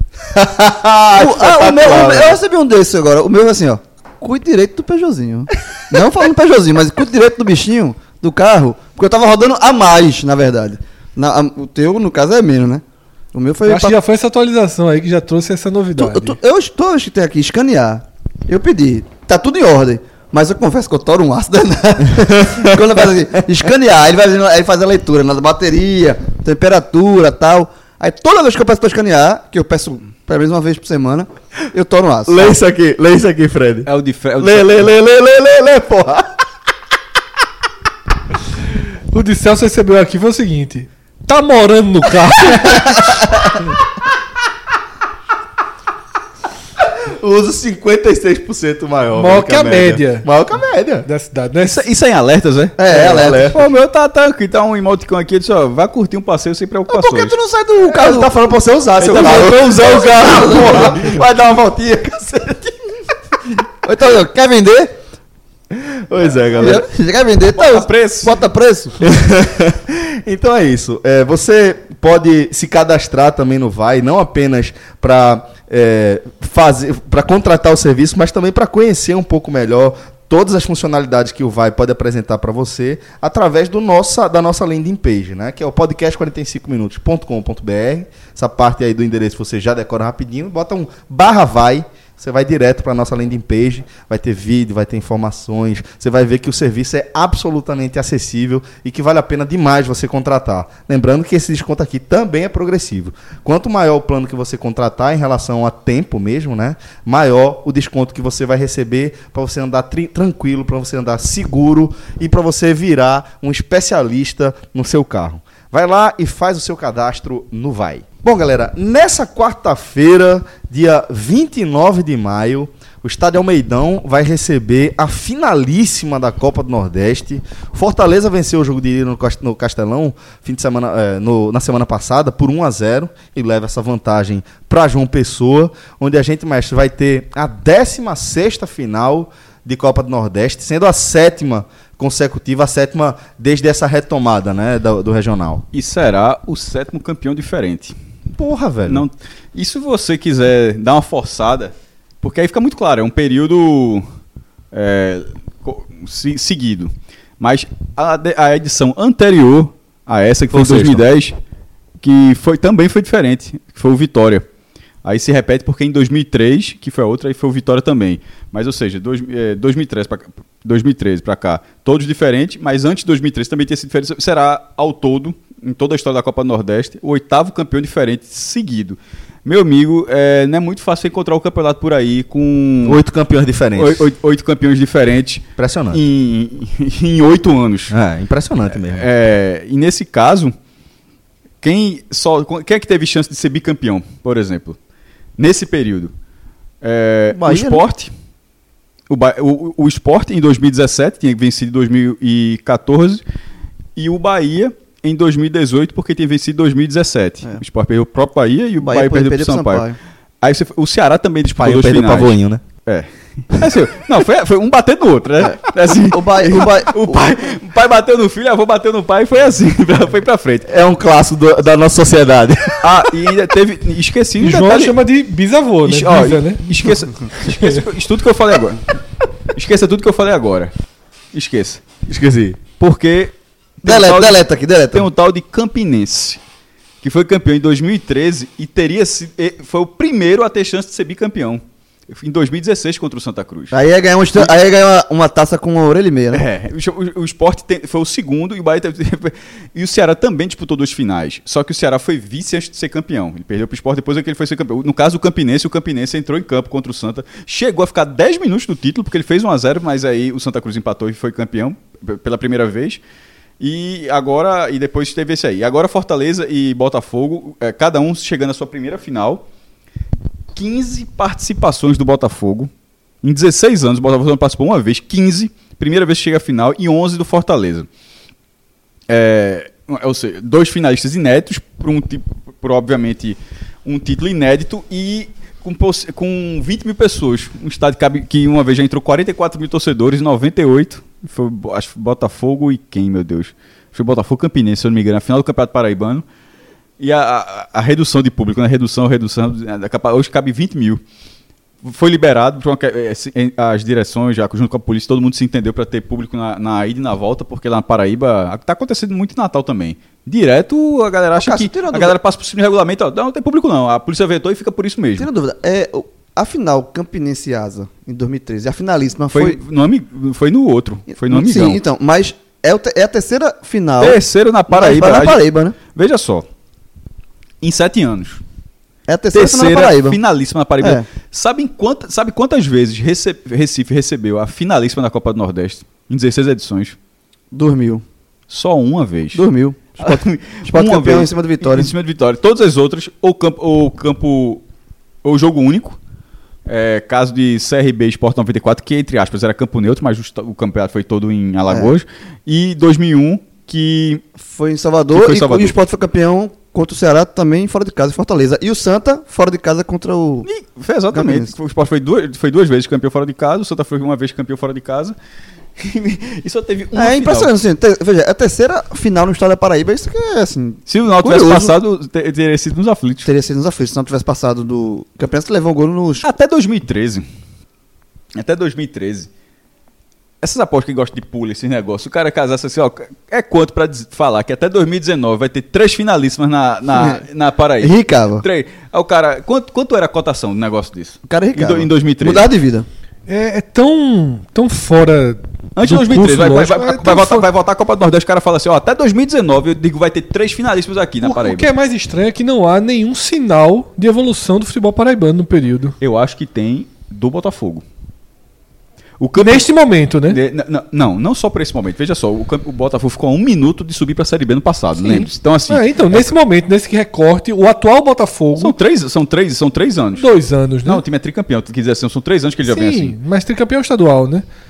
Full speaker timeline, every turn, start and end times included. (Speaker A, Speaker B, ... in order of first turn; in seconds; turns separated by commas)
Speaker A: 0.3-2.4, Speaker B: 1.1-14.0, Speaker C: 13.7-16.4, Speaker B: 15.9-32.6, Speaker A: 22.1-23.0, Speaker A: 32.3-36.3, Speaker D: 33.9-34.9, Speaker C: 39.1-42.9, Speaker A: 42.5-43.8, Speaker A: 46.8-51.1, Speaker C: 49.1-50.3, Speaker C: 51.1-51.9, Speaker D: 51.6-57.4, Speaker B: 52.8-53.5, Speaker A: 52.9-53.6, Speaker B: 56.9-58.3, Speaker A: 57.9-62.8, Speaker D: 59.0-60.8, Speaker B: 59.0-61.1, Speaker B: 63.8-64.9, Speaker A: 65.7-66.8, Speaker B: 66.6-69.1, Speaker D: 67.6-68.4, Speaker A: 69.0-145.6, Speaker D: 145.7-148.0, Speaker A: 148.4-149.1, Speaker D: 148.9-154.1, Speaker D: 154.7-161.4, Speaker A: 160.5-161.1, Speaker D: 162.0-164.4, Speaker D: 165.0-183.0, Speaker A: 182.8-184.1, Speaker D: 183.8-187.9, Speaker A: 185.6-186.0, Speaker A: 187.9-189.1, Speaker D: 188.8-190.5, Speaker D: 191.6-194.8, Speaker D: 195.4-196.1, Speaker D: 196.8-198.1, Speaker A: 197.4-197.8, Speaker D: 199.1-203.2, Speaker D: 204.0-209.9, Speaker B: 208.8-210.0, Speaker D: 210.4-220.7, Speaker A: 211.6-212.6, Speaker B: 215.5-217.2, Speaker A: 220.7-223.1, Speaker D: 222.8-225.0, Speaker C: 224.4-226.7, Speaker D: 225.8-229.0, Speaker C: 227.5-227.8, Speaker D: 229.5-230.7, Speaker D: 231.3-231.8, Speaker A: 232.1-232.6, Speaker D: 232.8-236.4, Speaker B: 233.8-235.1, Speaker D: 237.0-243.8, Speaker B: 243.7-246.4, Speaker D: 246.3-263.0, Speaker D: 263.6-269.4, Speaker D: 270.6-272.7, Speaker D: 273.2-277.9, Speaker D: 279.1-296.2, Speaker D: 297.0-301.0, Speaker D: 301.8-315.3, Speaker B: 311.4-312.2, Speaker B: 315.2-319.6, Speaker D: 319.3-321.8, Speaker B: 321.1-325.8, Speaker D: 324.0-326.4, Speaker D: 327.6-328.4, Speaker B: 329.1-330.2, Speaker D: 329.3-337.0, Speaker B: 337.5-338.0, Speaker D: 338.5-339.5, Speaker B: 339.4-341.9, Speaker D: 340.0-344.6, Speaker D: 345.2-346.0, Speaker D: 346.7-354.3, Speaker B: 354.4-360.5, Speaker D: 355.1-355.8, Speaker D: 360.4-365.2, Speaker B: 361.1-361.5, Speaker D: 365.8-367.5, Speaker B: 366.9-371.7, Speaker D: 370.9-373.3, Speaker B: 373.2-376.3, Speaker D: 376.2-377.2, Speaker D: 378.4-379.3, Speaker D: 380.4-392.4, Speaker B: 386.9-387.2, Speaker B: 387.8-388.4, Speaker B: 391.3-392.9, Speaker C: 393.3-397.5, Speaker D: 395.8-401.7, Speaker C: 401.2-405.9, Speaker D: 406.0-407.8, Speaker D: 409.2-409.7, Speaker C: 409.4-410.4, Speaker D: 410.2-416.3, Speaker C: 415.0-418.8, Speaker D: 418.6-420.3, Speaker C: 420.2-421.0, Speaker D: 420.8-423.2, Speaker C: 422.7-424.5